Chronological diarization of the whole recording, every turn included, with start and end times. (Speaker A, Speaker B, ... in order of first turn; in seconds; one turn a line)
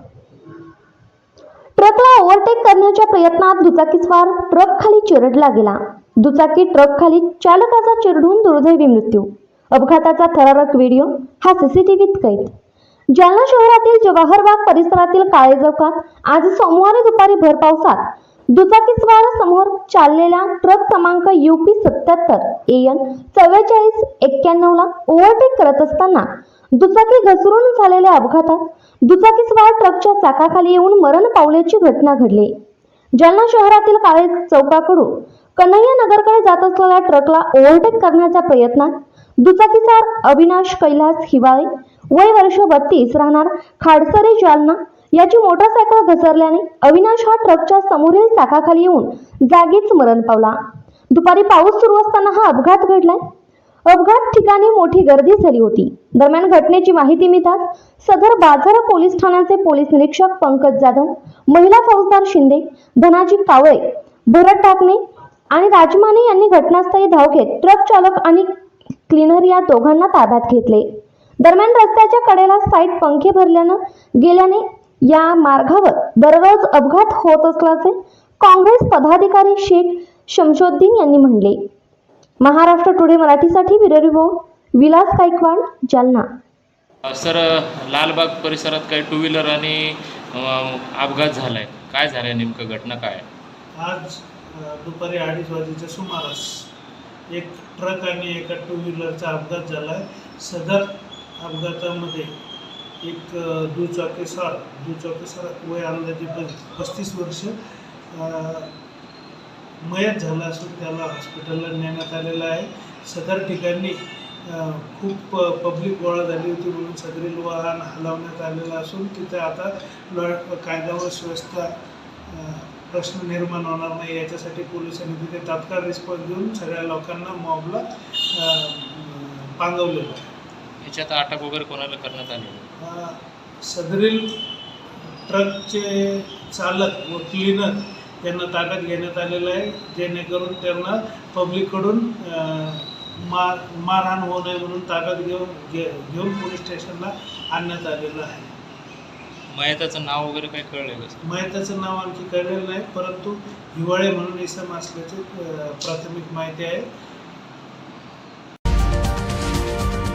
Speaker A: 1.8-12.5
Speaker A: 13.1-32.5
Speaker A: 33.2-50.6
Speaker A: 51.1-53.2
Speaker A: 53.9-68.5
Speaker A: 69.1-70.9
Speaker A: 71.4-81.6
Speaker A: 82.4-86.3
Speaker B: 87.1-93.2
Speaker C: 93.8-96.7
Speaker C: 97.3-102.3
Speaker C: 103.0-107.5
Speaker C: 108.1-108.7
Speaker C: 109.8-121.7
Speaker C: 122.3-130.2
Speaker B: 130.8-132.7
Speaker C: 132.8-134.3
Speaker C: 135.3-148.5
Speaker B: 149.5-151.2
Speaker C: 151.2-156.9